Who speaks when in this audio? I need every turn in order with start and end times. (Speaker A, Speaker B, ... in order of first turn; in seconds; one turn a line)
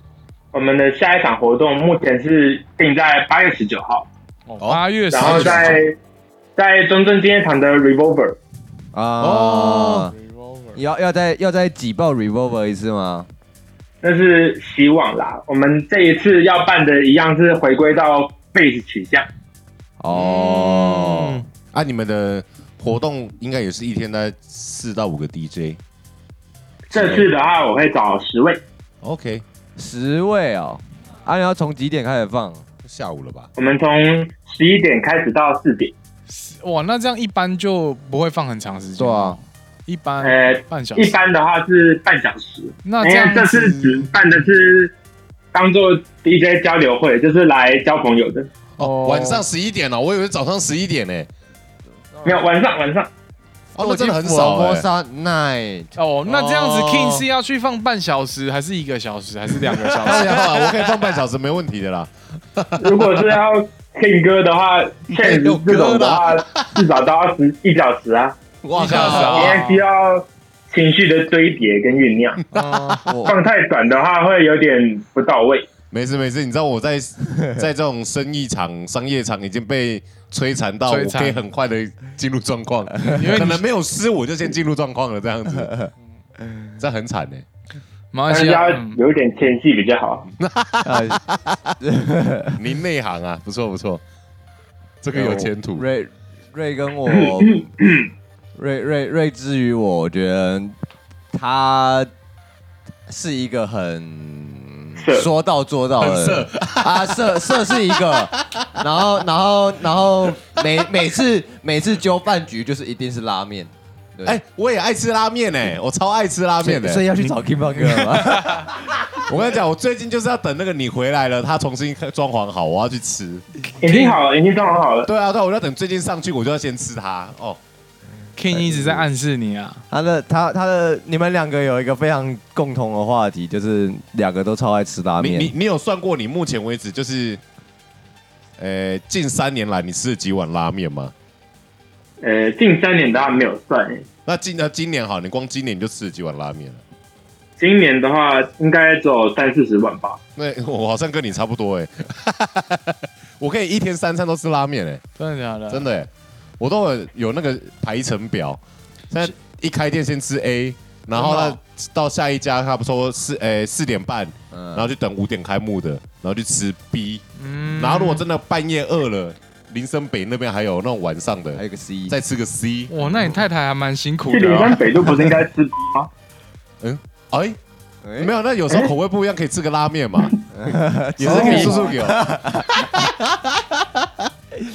Speaker A: 0.5-4.1
Speaker B: 4.5-5.8
Speaker C: 4.6-5.8
Speaker A: 5.1-6.0
Speaker A: 6.5-8.4
Speaker D: 8.9-10.1
Speaker C: 9.2-10.1
Speaker B: 10.2-10.8
Speaker D: 10.7-13.3
Speaker A: 14.0-19.3
Speaker D: 20.0-21.4
Speaker C: 20.1-25.8
Speaker A: 26.9-28.6
Speaker C: 26.9-27.3
Speaker C: 29.0-29.4
Speaker D: 29.8-32.6
Speaker C: 32.8-33.5
Speaker A: 33.5-35.9
Speaker B: 36.3-41.2
Speaker D: 39.0-39.4
Speaker A: 40.2-44.9
Speaker B: 42.8-44.1
Speaker A: 45.5-48.5
Speaker C: 48.8-51.3
Speaker B: 48.8-49.4
Speaker D: 52.2-52.5
Speaker A: 52.2-53.1
Speaker C: 53.7-54.9
Speaker D: 53.8-55.9
Speaker B: 56.0-60.5
Speaker C: 56.2-57.3
Speaker C: 59.7-63.3
Speaker A: 62.8-68.4
Speaker C: 65.1-66.8
Speaker C: 68.6-69.6
Speaker B: 68.8-69.8
Speaker A: 68.9-72.4
Speaker C: 72.5-73.2
Speaker D: 72.5-73.3
Speaker B: 72.5-73.0
Speaker A: 73.2-75.7
Speaker C: 75.9-85.7
Speaker B: 80.9-81.4
Speaker B: 83.0-83.6
Speaker C: 86.8-87.4
Speaker B: 88.1-89.0
Speaker A: 88.3-90.3
Speaker C: 90.3-91.8
Speaker D: 90.8-91.2
Speaker D: 91.8-92.6
Speaker C: 92.5-94.0
Speaker C: 95.0-95.8
Speaker D: 95.1-97.7
Speaker A: 97.7-98.1
Speaker D: 98.5-100.8
Speaker D: 101.3-102.1
Speaker D: 103.1-114.4
Speaker A: 105.0-105.3
Speaker C: 106.0-108.8
Speaker C: 114.2-117.0
Speaker D: 116.6-118.7
Speaker B: 117.7-118.7
Speaker C: 118.7-123.4
Speaker B: 123.8-124.2
Speaker A: 123.8-125.1
Speaker C: 125.0-127.6
Speaker B: 128.4-129.8
Speaker D: 128.5-129.0
Speaker D: 129.9-135.5
Speaker C: 135.2-137.4
Speaker C: 138.6-141.1
Speaker A: 142.2-144.1
Speaker C: 144.2-146.8
Speaker A: 147.6-150.2
Speaker C: 150.3-155.0
Speaker B: 155.2-155.9
Speaker C: 155.7-167.2
Speaker B: 161.1-161.6
Speaker D: 164.5-164.9
Speaker B: 167.4-168.2
Speaker C: 167.7-172.9
Speaker D: 171.5-172.2
Speaker B: 172.9-175.1
Speaker A: 174.3-176.1
Speaker C: 176.8-177.6
Speaker D: 178.0-178.3
Speaker C: 178.2-180.4
Speaker D: 180.5-182.9
Speaker C: 181.2-184.2